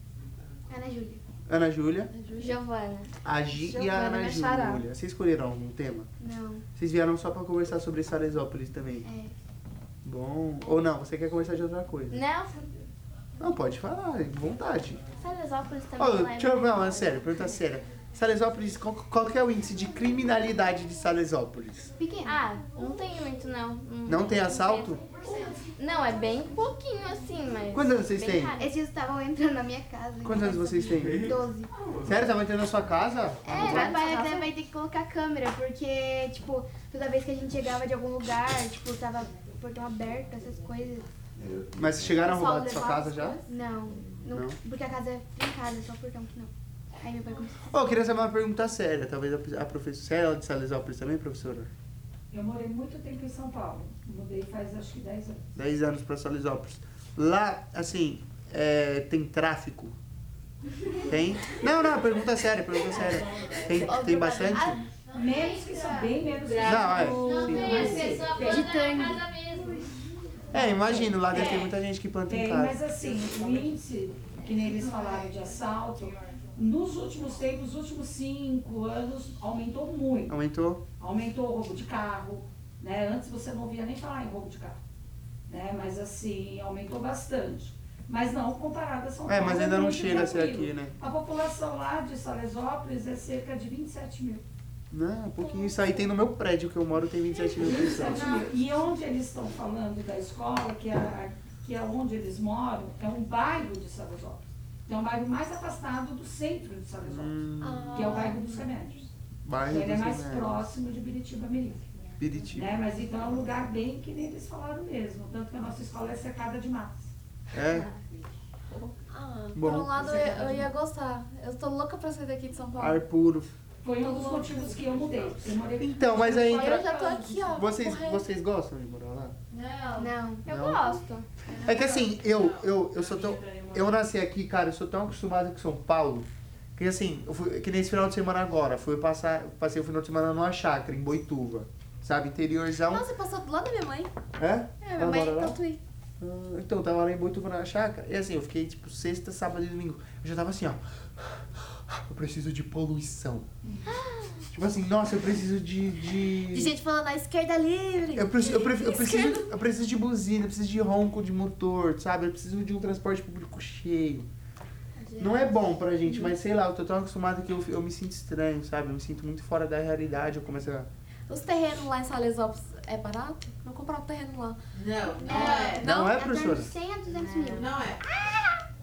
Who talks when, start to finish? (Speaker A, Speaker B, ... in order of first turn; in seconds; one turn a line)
Speaker A: 0.7-1.2
Speaker B: 1.4-2.1
Speaker C: 2.1-2.6
Speaker D: 2.4-3.1
Speaker B: 3.2-6.1
Speaker C: 3.5-4.8
Speaker A: 6.2-6.6
Speaker B: 6.8-9.1
Speaker A: 9.0-9.3
Speaker B: 10.0-12.2
Speaker D: 12.1-12.7
Speaker B: 13.4-15.0
Speaker D: 15.2-17.4
Speaker B: 16.0-21.9
Speaker A: 22.0-22.4
Speaker D: 22.2-25.1
Speaker B: 24.1-25.0
Speaker E: 25.2-25.6
Speaker D: 25.7-28.7
Speaker B: 27.7-28.6
Speaker A: 28.5-31.7
Speaker B: 30.2-31.3
Speaker B: 32.0-33.9
Speaker D: 33.5-34.5
Speaker A: 33.5-41.1
Speaker C: 33.6-34.0
Speaker B: 41.7-43.4
Speaker A: 42.2-47.7
Speaker B: 44.2-44.6
Speaker B: 47.6-51.7
Speaker E: 52.3-55.4
Speaker B: 55.5-59.9
Speaker B: 61.0-64.8
Speaker D: 63.6-64.8
Speaker E: 65.1-68.7
Speaker D: 65.3-66.0
Speaker F: 66.5-66.9
Speaker B: 66.6-68.0
Speaker D: 67.0-69.8
Speaker A: 68.3-69.2
Speaker B: 70.5-72.8
Speaker E: 70.5-71.6
Speaker F: 71.3-71.7
Speaker E: 72.3-80.3
Speaker B: 80.3-80.8
Speaker E: 81.0-84.8
Speaker E: 85.5-94.4
Speaker B: 89.2-90.9
Speaker B: 94.9-98.4
Speaker E: 97.6-109.1
Speaker C: 97.8-98.4
Speaker B: 107.0-108.3
Speaker C: 107.6-108.5
Speaker B: 109.4-110.6
Speaker E: 109.7-111.9
Speaker B: 112.2-112.7
Speaker E: 112.5-117.1
Speaker B: 117.5-117.9
Speaker C: 119.1-123.0
Speaker B: 119.5-120.0
Speaker B: 122.8-123.5
Speaker E: 123.8-127.5
Speaker C: 124.0-124.8
Speaker B: 125.8-126.9
Speaker C: 126.3-128.2
Speaker B: 127.5-129.3
Speaker F: 129.6-129.9
Speaker C: 129.6-130.0
Speaker A: 129.9-130.4
Speaker D: 130.4-131.3
Speaker B: 130.4-131.0
Speaker C: 131.5-132.1
Speaker B: 131.6-143.1
Speaker F: 132.2-134.0
Speaker C: 142.8-144.1
Speaker B: 144.4-145.6
Speaker C: 144.8-145.8
Speaker B: 146.2-153.5
Speaker E: 153.6-153.9
Speaker D: 153.8-154.4
Speaker B: 154.5-156.7
Speaker C: 156.5-159.5
Speaker B: 158.1-164.3
Speaker B: 165.2-170.9
Speaker C: 165.5-166.3
Speaker C: 171.3-174.6
Speaker F: 174.7-176.0
Speaker A: 175.2-177.8
Speaker C: 175.2-176.2
Speaker B: 175.8-176.7
Speaker F: 177.3-178.1